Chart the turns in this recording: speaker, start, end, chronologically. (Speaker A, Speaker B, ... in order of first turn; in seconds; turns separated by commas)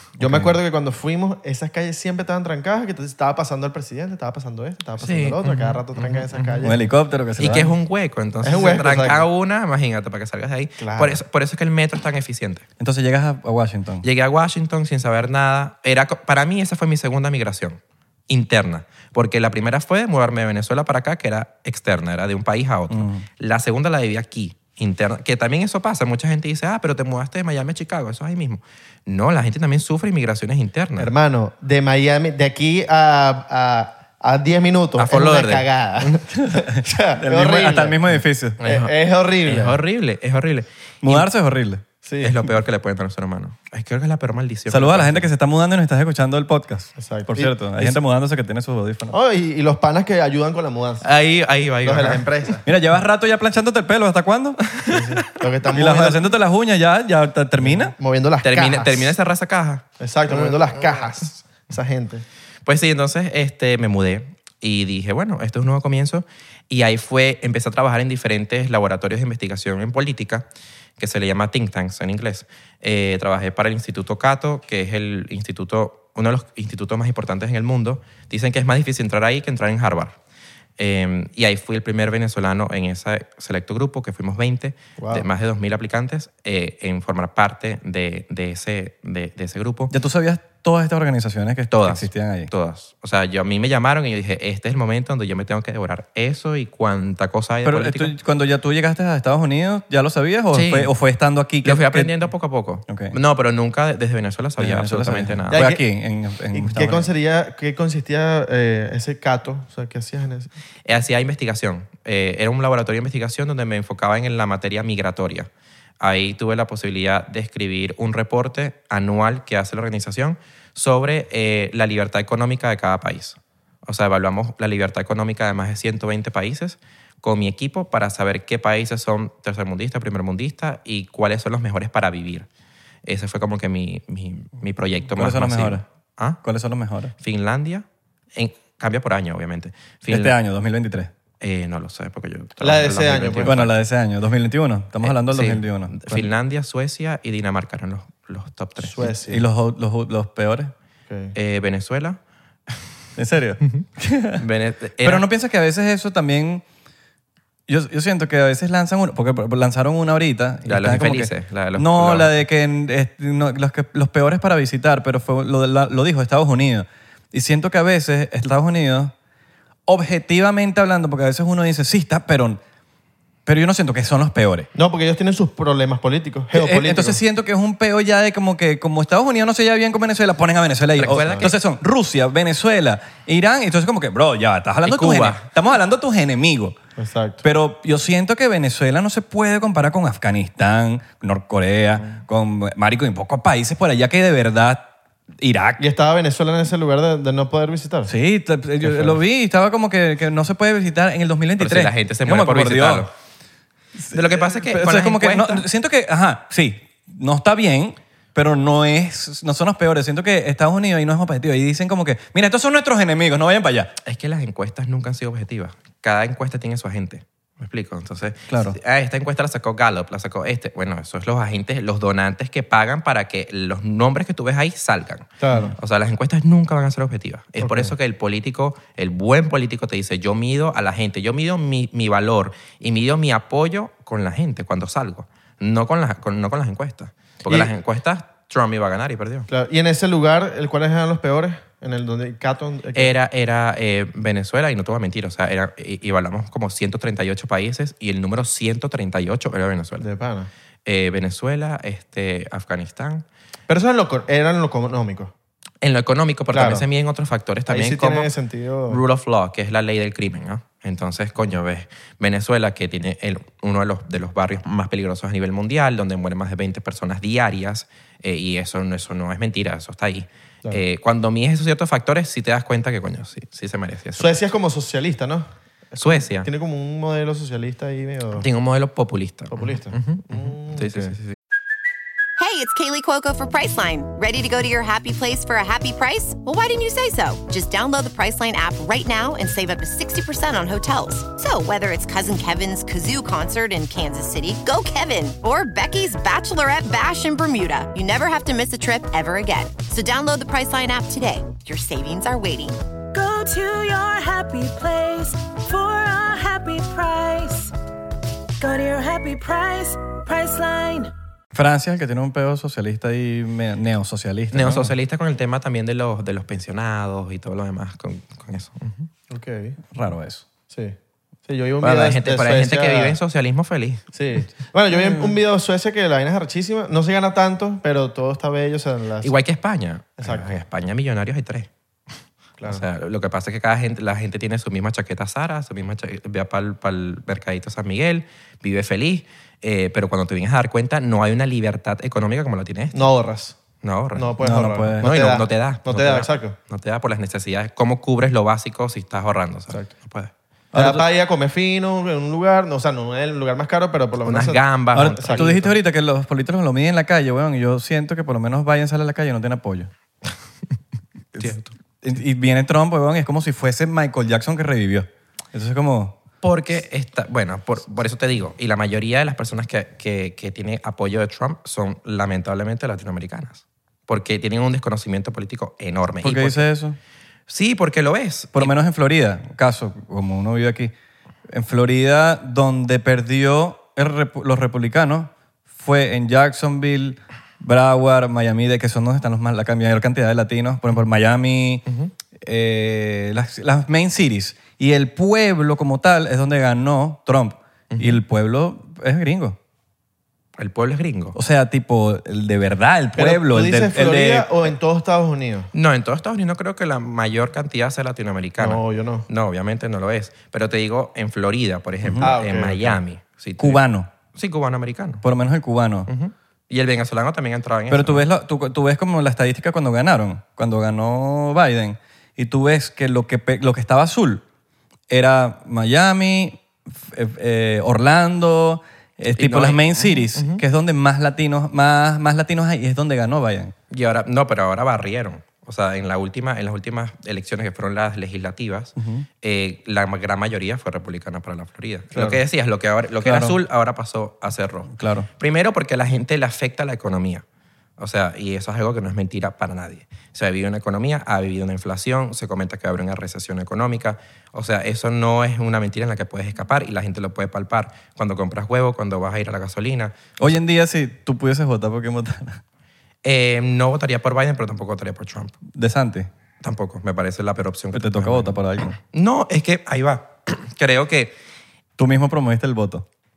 Speaker A: 0.2-0.5, Speaker B: 0.2-6.8, Speaker C: 5.0-6.7, Speaker A: 6.6-7.7, Speaker C: 7.4-12.7, Speaker B: 8.4-9.2, Speaker B: 10.8-11.2, Speaker A: 12.8-14.1, Speaker C: 14.0-31.1, Speaker A: 22.9-23.2, Speaker B: 31.0-39.8, Speaker C: 35.0-36.2, Speaker A: 36.3-38.6, Speaker C: 38.6-41.3, Speaker A: 41.0-41.8, Speaker B: 42.0-42.4, Speaker C: 42.2-45.3, Speaker A: 44.7-49.1, Speaker B: 47.0-48.0, Speaker B: 49.1-51.0, Speaker C: 51.0-52.5, Speaker B: 51.8-52.6, Speaker A: 52.6-54.6, Speaker C: 54.7-55.1, Speaker B: 54.9-56.2, Speaker A: 55.7-57.9, Speaker B: 57.6-59.1, Speaker C: 58.4-61.0, Speaker B: 60.0-62.2, Speaker C: 62.6-70.5, Speaker C: 71.0-80.2, Speaker C: 80.8-89.9, Speaker B: 85.0-85.2, Speaker A: 89.9-92.5, Speaker C: 91.7-98.1, Speaker A: 97.6-102.1, Speaker C: 100.5-100.9, Speaker C: 101.6-105.6, Speaker A: 102.9-103.2, Speaker A: 104.6-107.1, Speaker B: 105.5-105.8, Speaker B: 106.5-110.5, Speaker C: 110.8-132.5, Speaker C: 133.0-136.4, Speaker A: 135.2-135.8, Speaker A: 136.4-137.1, Speaker C: 137.2-140.3, Speaker A: 140.1-141.1, Speaker C: 141.4-143.7, Speaker B: 142.6-143.5, Speaker A: 143.4-146.3, Speaker C: 145.0-148.9, Speaker B: 148.9-149.4, Speaker A: 149.0-150.7, Speaker B: 151.1-151.3, Speaker C: 151.3-152.2, Speaker A: 153.2-154.4, Speaker C: 154.4-155.3, Speaker A: 155.0-156.6, Speaker A: 157.7-169.1, Speaker C: 160.7-162.3, Speaker A: 169.9-172.6, Speaker A: 173.4-174.7, Speaker B: 174.7-177.2, Speaker A: 176.5-186.8, Speaker C: 180.9-181.6, Speaker B: 181.1-181.5, Speaker C: 184.8-185.5, Speaker B: 187.0-187.4, Speaker A: 187.4-195.8, Speaker B: 195.8-198.1, Speaker A: 198.1-203.1, Speaker B: 198.8-199.2, Speaker C: 201.6-203.1, Speaker A: 204.0-213.9, Speaker C: 204.1-205.7, Speaker C: 214.0-239.5, Speaker A: 218.5-218.8, Speaker B: 225.4-225.7, Speaker B: 227.6-227.9, Speaker B: 237.4-237.7, Speaker B: 239.5-243.1, Speaker C: 242.9-250.1, Speaker B: 250.0-250.5, Speaker C: 250.8-253.2, Speaker B: 253.7-255.3, Speaker C: 255.8-258.3, Speaker B: 256.5-256.8, Speaker B: 257.7-259.0, Speaker C: 258.9-274.3, Speaker B: 274.2-278.4, Speaker C: 276.0-276.5, Speaker C: 278.3-281.3, Speaker B: 279.5-281.1, Speaker D: 282.4-302.8, Speaker E: 303.1-307.7, Speaker E: 308.6-311.1, Speaker A: 311.5-314.9, Speaker C: 314.5-319.1, Speaker B: 319.3-319.8, Speaker A: 319.9-320.4, Speaker B: 321.5-323.2, Speaker C: 321.8-324.0, Speaker B: 324.1-329.3, Speaker C: 329.2-331.7, Speaker B: 330.2-330.5, Speaker C: 332.7-343.1, Speaker B: 342.9-343.6, Speaker C: 343.8-344.3, Speaker B: 344.1-346.6, Speaker A: 344.4-345.1, Speaker C: 345.0-350.3, Speaker A: 350.7-351.0, Speaker B: 350.7-355.5, Speaker C: 354.2-355.8, Speaker A: 354.9-359.9, Speaker A: 361.3-366.1, Speaker C: 361.4-361.7, Speaker C: 366.4-376.7, Speaker A: 376.2-377.0, Speaker C: 377.5-378.7, Speaker A: 378.5-380.9, Speaker A: 381.5-391.9, Speaker C: 391.9-392.1, Speaker A: 392.4-399.6, Speaker C: 397.9-398.2, Speaker C: 400.6-401.3, Speaker A: 401.3-404.5, Speaker B: 403.1-405.7, Speaker C: 405.7-415.2, Speaker B: 408.6-409.2, Speaker A: 412.0-412.3, Speaker B: 412.2-413.0, Speaker A: 413.6-414.1, Speaker A: 415.2-416.1, Speaker C: 416.1-418.2, Speaker A: 417.9-424.4, Speaker A: 425.1-433.7, Speaker C: 429.4-430.6, Speaker C: 433.9-447.4, Speaker A: 439.0-439.2, Speaker B: 442.1-442.4, Speaker A: 443.2-443.6, Speaker A: 444.9-445.3, Speaker C: 448.0-460.1, Speaker A: 460.4-462.6, Speaker C: 463.2-465.6, Speaker A: 465.7-466.3, Speaker C: 466.6-471.4, Speaker A: 467.9-469.0, Speaker A: 472.0-473.0